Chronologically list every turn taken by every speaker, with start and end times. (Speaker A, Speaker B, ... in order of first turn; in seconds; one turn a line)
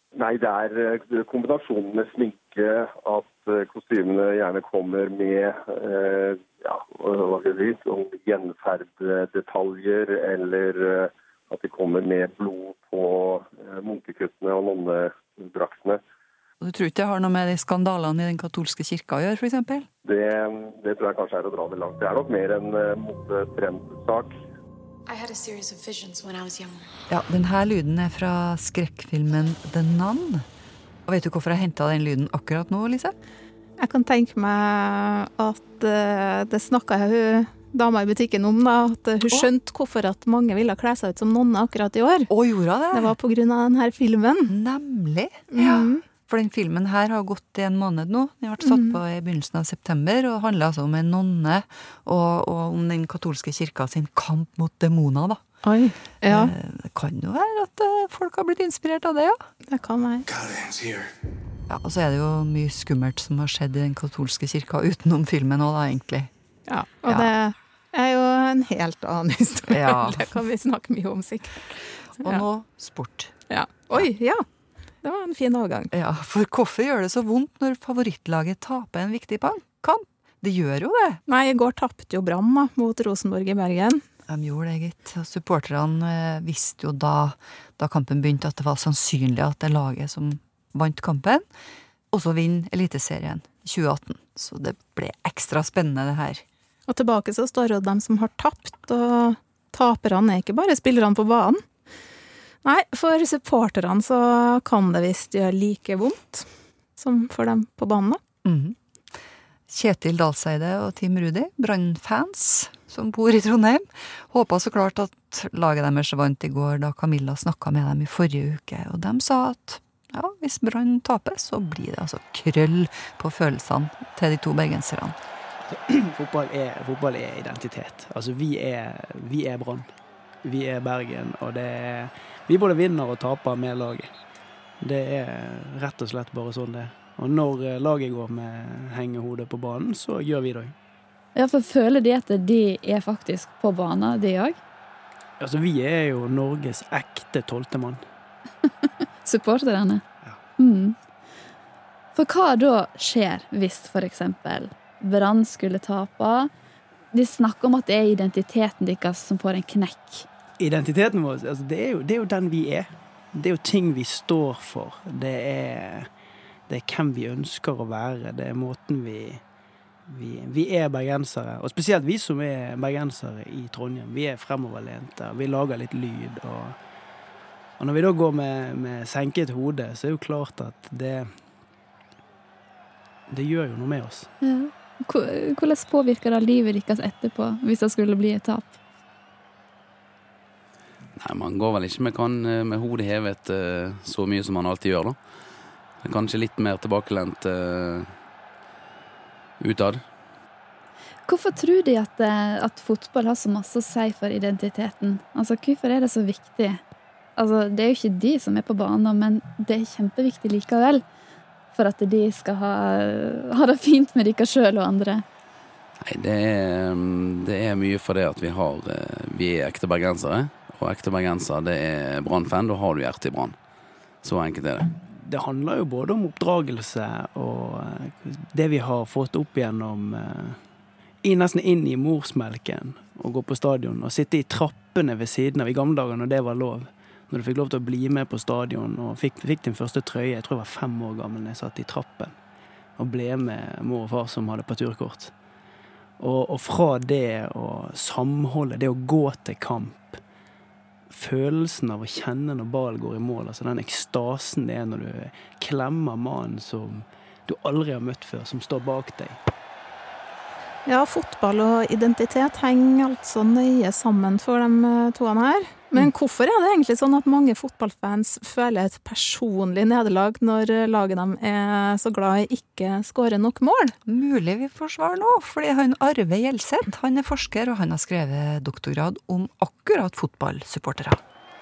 Speaker A: 0.1-16.0
Speaker B: 16.6-19.9
Speaker A: 20.0-24.3
Speaker B: 27.1-30.4
Speaker B: 31.1-33.1
Speaker C: 33.8-42.3
Speaker B: 42.3-43.1
Speaker C: 42.9-44.5
Speaker B: 44.5-55.4
Speaker C: 45.5-46.0
Speaker C: 48.6-49.0
Speaker C: 55.6-56.5
Speaker B: 56.2-59.5
Speaker C: 59.7-60.3
Speaker B: 61.7-66.3
Speaker C: 66.7-72.4
Speaker B: 67.0-67.3
Speaker B: 69.7-70.3
Speaker B: 72.2-73.3
Speaker C: 73.5-74.4
Speaker C: 75.0-75.9
Speaker B: 75.9-81.2
Speaker C: 81.2-84.0
Speaker B: 84.3-91.4
Speaker B: 92.1-96.4
Speaker C: 96.9-101.6
Speaker C: 102.6-108.2
Speaker B: 108.4-108.8
Speaker B: 109.7-125.2
Speaker D: 125.9-129.9
Speaker D: 130.4-134.1
Speaker D: 134.8-140.7
Speaker E: 141.3-144.6
Speaker D: 145.4-148.0
Speaker E: 149.2-150.0
Speaker E: 150.6-150.9
Speaker E: 152.1-156.5
Speaker E: 157.1-160.2
Speaker D: 160.6-166.1
Speaker D: 166.7-169.4
Speaker D: 170.1-176.8
Speaker D: 177.8-181.4
Speaker D: 183.3-184.3
Speaker E: 184.4-188.8
Speaker F: 191.2-195.2
Speaker F: 196.0-198.1
Speaker F: 199.6-200.0
Speaker E: 201.3-206.8
Speaker E: 207.4-211.0
Speaker E: 211.7-215.2
Speaker F: 216.1-223.6
Speaker F: 224.2-224.9
Speaker D: 225.0-230.6
Speaker D: 231.2-242.4
Speaker D: 243.0-245.3
Speaker D: 246.2-250.2
Speaker D: 251.1-259.4
Speaker C: 260.9-273.9
Speaker B: 274.1-281.2